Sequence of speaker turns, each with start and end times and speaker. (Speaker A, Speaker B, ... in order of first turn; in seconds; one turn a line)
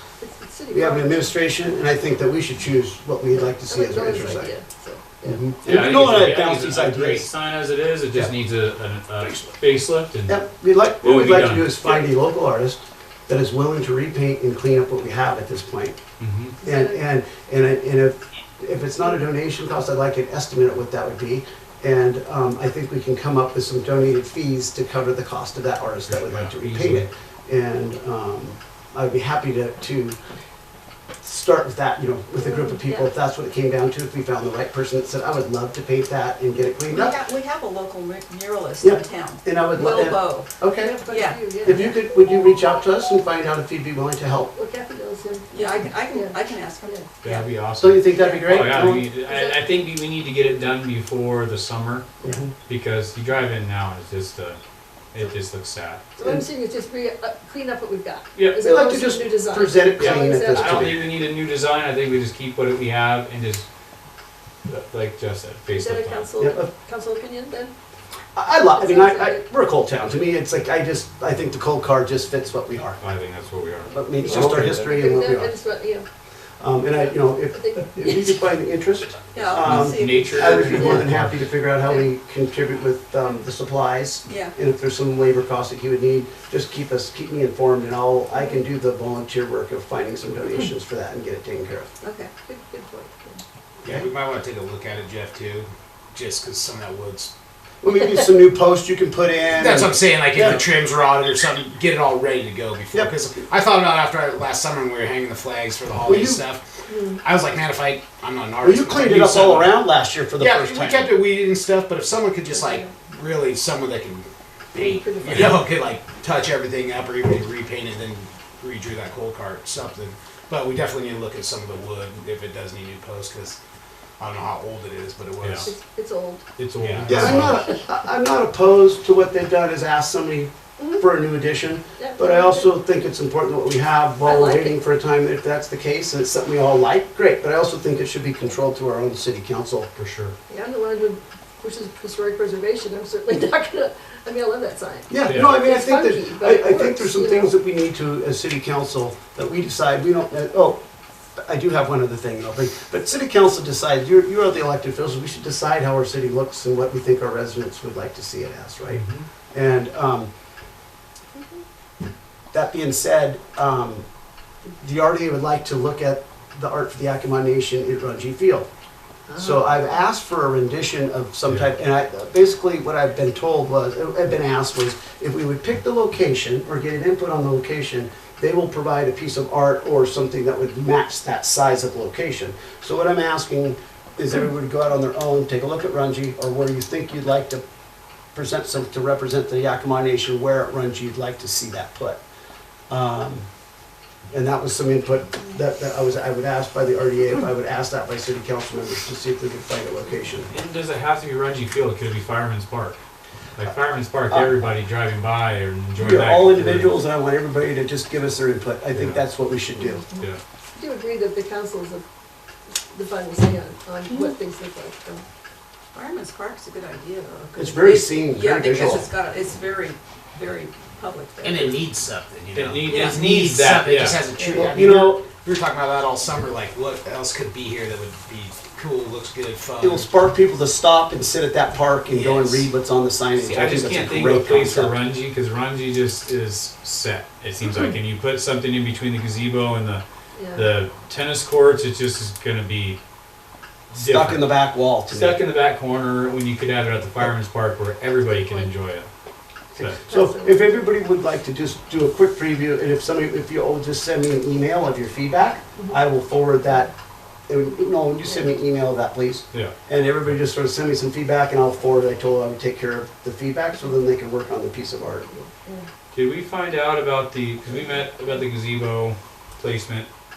Speaker A: 0.2-1.3
Speaker B: 0.7-4.5
Speaker A: 3.3-5.5
Speaker B: 5.2-7.3
Speaker C: 5.6-11.7
Speaker D: 9.2-9.6
Speaker B: 10.3-16.0
Speaker C: 16.2-16.6
Speaker A: 16.6-17.0
Speaker B: 16.6-30.2
Speaker C: 26.1-27.1
Speaker B: 31.2-37.2
Speaker A: 32.4-32.8
Speaker E: 36.9-40.5
Speaker B: 38.8-44.5
Speaker A: 40.8-42.0
Speaker E: 41.1-41.9
Speaker A: 44.5-47.1
Speaker E: 45.5-47.5
Speaker C: 47.2-52.1
Speaker B: 47.8-49.0
Speaker E: 48.1-49.0
Speaker A: 48.2-48.5
Speaker A: 49.0-49.9
Speaker B: 52.2-52.5
Speaker C: 52.6-54.6
Speaker C: 55.1-56.0
Speaker A: 56.2-61.0
Speaker C: 58.4-58.6
Speaker B: 58.6-61.1
Speaker C: 60.0-63.6
Speaker C: 64.7-66.3
Speaker A: 65.7-67.7
Speaker B: 66.4-66.7
Speaker B: 68.3-73.0
Speaker A: 68.7-69.4
Speaker C: 73.0-74.9
Speaker B: 73.9-75.6
Speaker A: 74.2-76.1
Speaker B: 76.6-91.9
Speaker A: 77.5-78.5
Speaker E: 79.3-80.8
Speaker C: 79.6-81.5
Speaker A: 80.6-81.1
Speaker E: 84.2-84.5
Speaker A: 88.3-88.6
Speaker E: 92.0-92.3
Speaker A: 92.4-93.4
Speaker D: 93.8-97.3
Speaker B: 97.8-100.6
Speaker D: 99.5-109.8
Speaker B: 106.0-106.4
Speaker A: 106.9-107.2
Speaker B: 108.6-111.1
Speaker D: 110.4-123.6
Speaker A: 112.5-112.9
Speaker A: 114.7-115.7
Speaker D: 124.2-125.7
Speaker C: 125.4-125.7
Speaker A: 125.6-126.4
Speaker C: 126.6-127.6
Speaker D: 126.8-127.4
Speaker B: 127.1-139.9
Speaker A: 127.5-127.7
Speaker A: 132.0-132.7
Speaker A: 134.2-134.8
Speaker C: 139.9-140.3
Speaker A: 140.5-147.5
Speaker B: 145.1-150.8
Speaker C: 145.3-145.6
Speaker B: 151.4-160.3
Speaker C: 158.9-159.3
Speaker B: 162.5-164.0
Speaker B: 164.8-168.7
Speaker B: 169.3-187.6
Speaker B: 188.3-192.2
Speaker B: 192.9-193.5
Speaker B: 194.3-200.5
Speaker C: 200.5-203.0
Speaker C: 203.6-207.0
Speaker B: 206.0-210.1
Speaker C: 208.9-209.2
Speaker A: 210.7-212.0
Speaker A: 212.9-215.2
Speaker E: 215.9-221.8
Speaker B: 217.6-219.1
Speaker D: 221.4-230.1
Speaker C: 222.5-224.2
Speaker E: 222.8-223.2
Speaker A: 224.3-224.7
Speaker B: 224.5-225.2
Speaker B: 229.8-235.0
Speaker D: 232.1-232.7
Speaker C: 233.4-240.0
Speaker A: 240.3-240.7
Speaker C: 240.5-243.0
Speaker C: 243.9-249.1
Speaker B: 243.9-245.4
Speaker A: 248.2-248.7
Speaker B: 249.7-256.9
Speaker A: 249.8-250.9
Speaker B: 257.5-265.3
Speaker A: 258.2-258.6
Speaker A: 265.3-265.9
Speaker C: 266.1-270.1